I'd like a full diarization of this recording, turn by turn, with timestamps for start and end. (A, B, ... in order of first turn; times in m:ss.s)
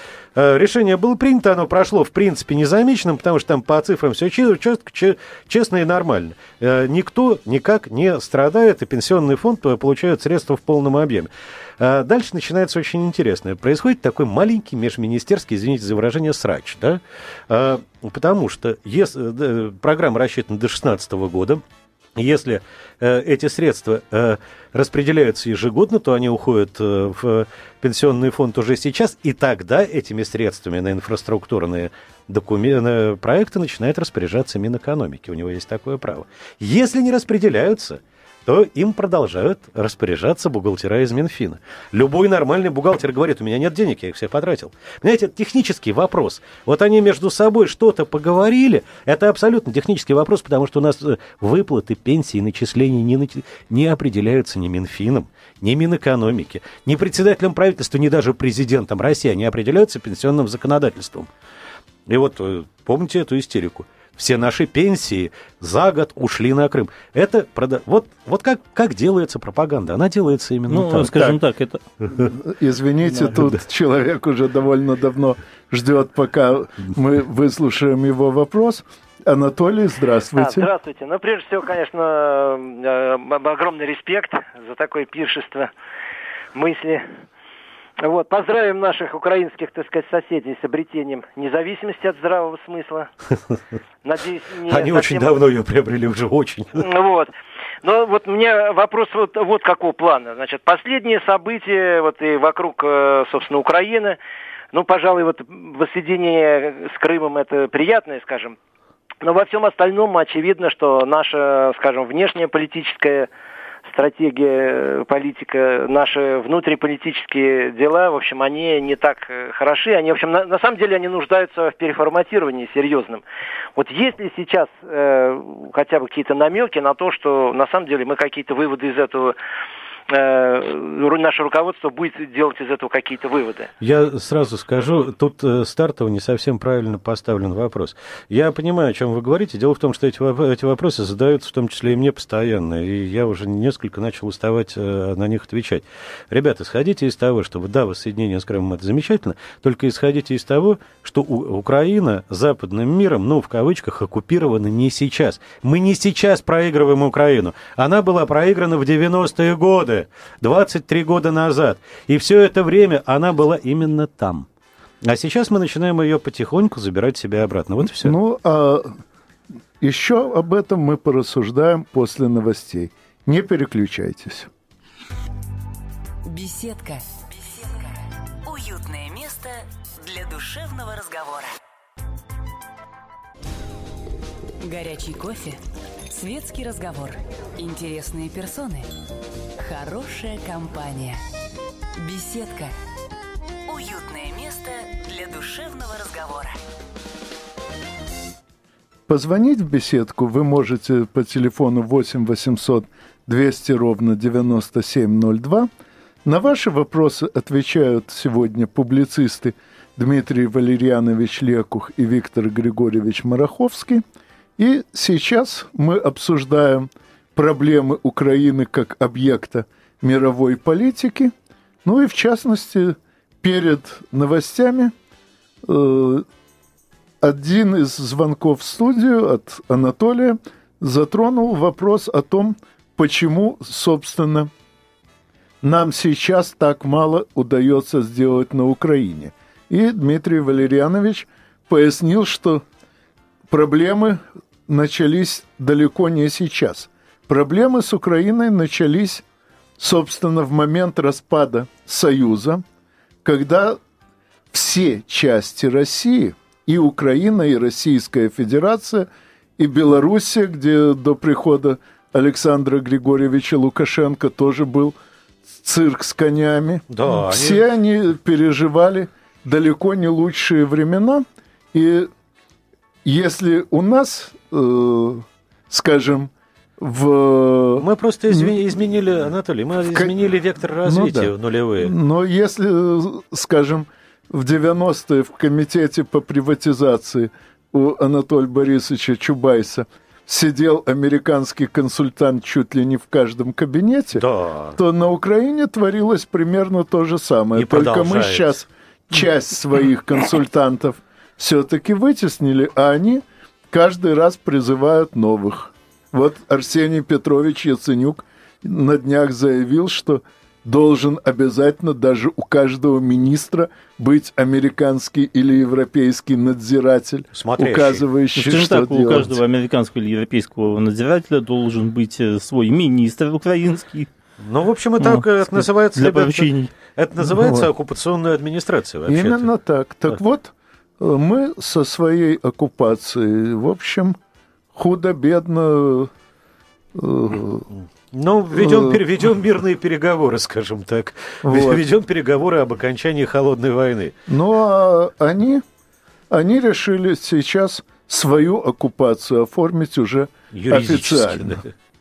0:00.4-0:21.6 A
0:22.2-1:01.3 A
1:02.1-1:11.4 A
1:10.7-1:11.8 B
1:12.2-1:20.7 C
1:20.4-1:25.7 D
1:26.5-1:27.0 D
1:28.0-1:33.1 D
1:34.0-1:35.4 D
1:34.7-1:36.9 A
1:36.8-1:44.2 D
1:44.7-1:48.6 D
1:49.2-1:53.3 D
1:53.9-2:03.2 D
2:03.8-2:09.4 D
2:10.1-2:13.7 D
2:13.8-2:44.5 A
2:45.0-2:48.2 A
2:48.0-2:48.9 C
2:49.8-2:54.5 C
2:56.3-3:01.5 E
3:04.6-3:05.6 E
3:06.1-3:08.9 E
3:09.6-3:11.2 E
3:12.0-3:12.7 E
3:13.7-3:16.6 E
3:19.1-3:25.7 C
3:26.2-3:34.0 C
3:34.6-3:41.3 C
3:41.8-3:44.9 C
3:45.6-3:46.3 C
3:47.2-3:54.5 C
3:55.6-4:02.6 C
4:03.5-4:09.2 C
4:09.8-4:12.6 C
4:13.2-4:13.8 C
4:14.5-4:25.0 C
4:25.5-4:32.1 C
4:26.9-4:27.6 A
4:33.0-4:38.6 C
4:37.8-4:41.9 A
4:39.9-4:40.1 C
4:40.8-4:54.2 C
4:54.2-4:54.8 A
4:54.8-5:19.4 C
4:57.6-4:58.5 A
5:17.4-5:18.0 A
5:18.4-5:24.1 B
5:24.4-5:29.5 A
5:25.0-5:26.7 B
5:27.2-5:27.7 C
5:29.1-5:34.2 C
5:34.7-5:36.1 C
5:36.9-5:37.7 C
5:38.1-5:44.2 A
5:38.5-5:39.0 C
5:41.4-5:41.8 C
5:44.3-5:45.6 C
5:46.3-5:51.6 C
5:50.5-5:51.7 A